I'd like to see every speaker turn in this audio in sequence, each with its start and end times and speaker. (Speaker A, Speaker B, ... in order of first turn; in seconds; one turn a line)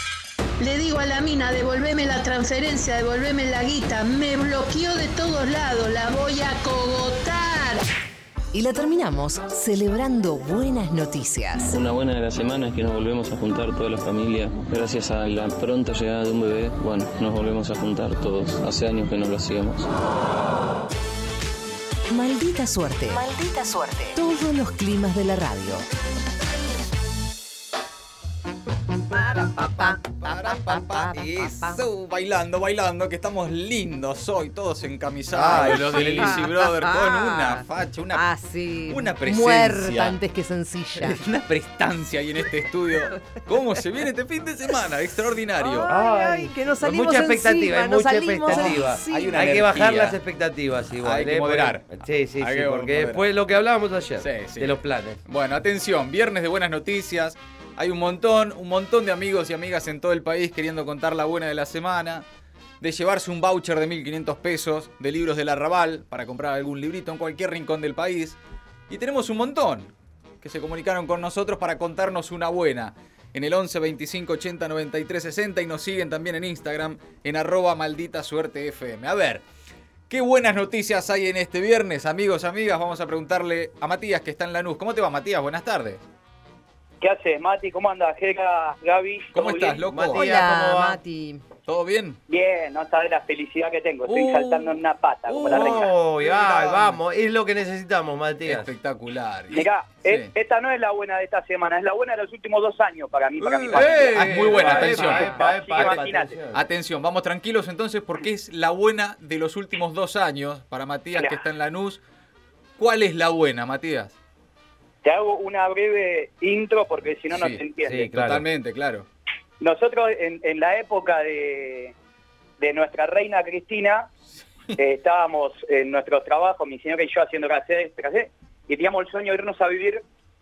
Speaker A: 0.6-7.8
Speaker B: 8.5-11.7
Speaker C: 11.6-19.9
Speaker B: 22.1-25.8
Speaker D: 29.1-31.8
Speaker E: 29.5-38.2
Speaker D: 35.3-41.2
Speaker F: 35.4-36.4
Speaker E: 38.9-40.2
Speaker E: 41.0-45.9
Speaker D: 45.6-49.5
Speaker F: 45.9-55.2
Speaker E: 48.5-50.2
Speaker E: 51.0-53.2
Speaker E: 54.2-62.2
Speaker E: 62.8-79.4
Speaker E: 80.1-86.0
Speaker G: 87.0-89.8
Speaker E: 89.3-90.2
Speaker F: 89.9-91.0
Speaker D: 90.1-91.4
Speaker E: 91.7-92.2
Speaker G: 92.3-95.9
Speaker E: 94.1-94.8
Speaker F: 95.3-98.7
Speaker E: 95.4-97.0
Speaker E: 98.4-100.3
Speaker G: 99.5-106.4
Speaker E: 103.4-106.0
Speaker F: 103.7-106.6
Speaker E: 106.5-112.0
Speaker E: 112.8-114.2
Speaker G: 115.0-118.1
Speaker E: 117.3-119.1
Speaker F: 117.8-118.4
Speaker G: 119.6-121.9
Speaker G: 122.6-124.1
Speaker G: 124.8-130.0